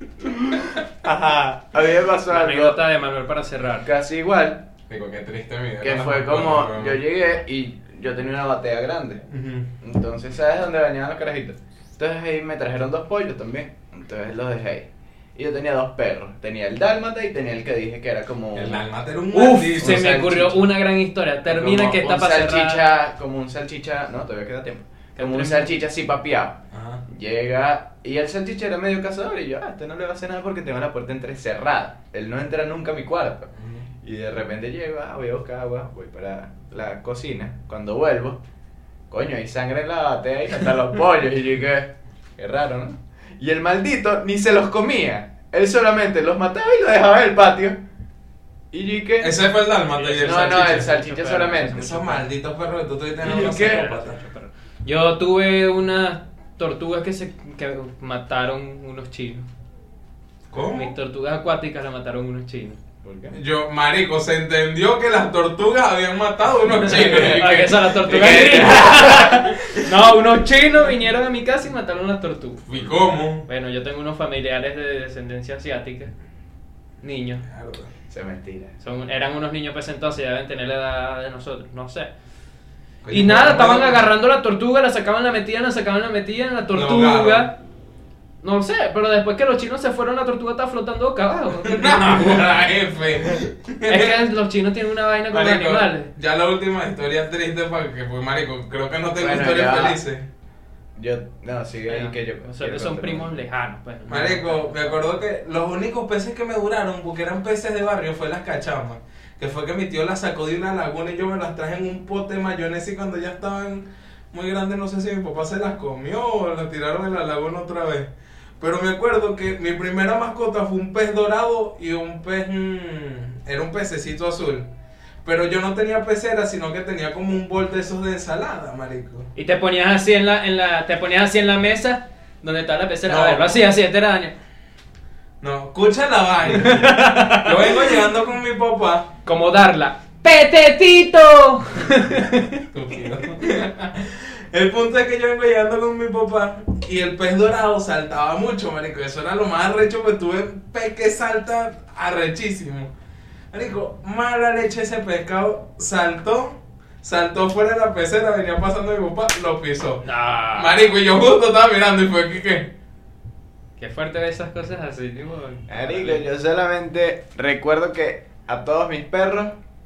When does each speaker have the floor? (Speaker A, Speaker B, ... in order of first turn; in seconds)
Speaker A: 0.2-2.8, 3.9-4.6, 5.8-9.2, 9.8-18.8, 19.8-20.7, 21.4-33.5, 34.0-38.4, 39.1-47.8, 48.7-49.4, 50.2-52.2, 53.2-53.9, 63.0-63.4, 66.9-69.5, 78.1-78.7, 99.2-100.0, 101.0-103.4, 165.7-169.6
Speaker B: 2.3-3.9, 19.3-22.9, 25.2-25.8, 49.9-52.2, 53.3-59.5, 60.7-62.8, 67.0-72.7, 73.5-76.1, 77.0-77.4, 78.8-82.1, 83.1-87.6, 88.4-92.4, 93.9-96.1, 101.9-105.0, 129.3-134.3, 136.5-137.9, 139.2-142.6, 160.0-160.8, 163.8-166.2
Speaker C: 4.9-7.0, 9.3-9.7, 18.5-20.1, 26.7-27.0, 33.6-33.8, 49.2-50.9, 51.7-54.2, 60.5-60.9, 63.3-67.7, 72.7-73.5, 77.4-77.9, 83.0-84.1, 86.7-87.5, 91.6-94.2, 95.3-100.3, 104.1-124.7, 125.2-129.3, 133.1-133.6, 135.4-139.1, 142.7-152.9, 153.5-162.7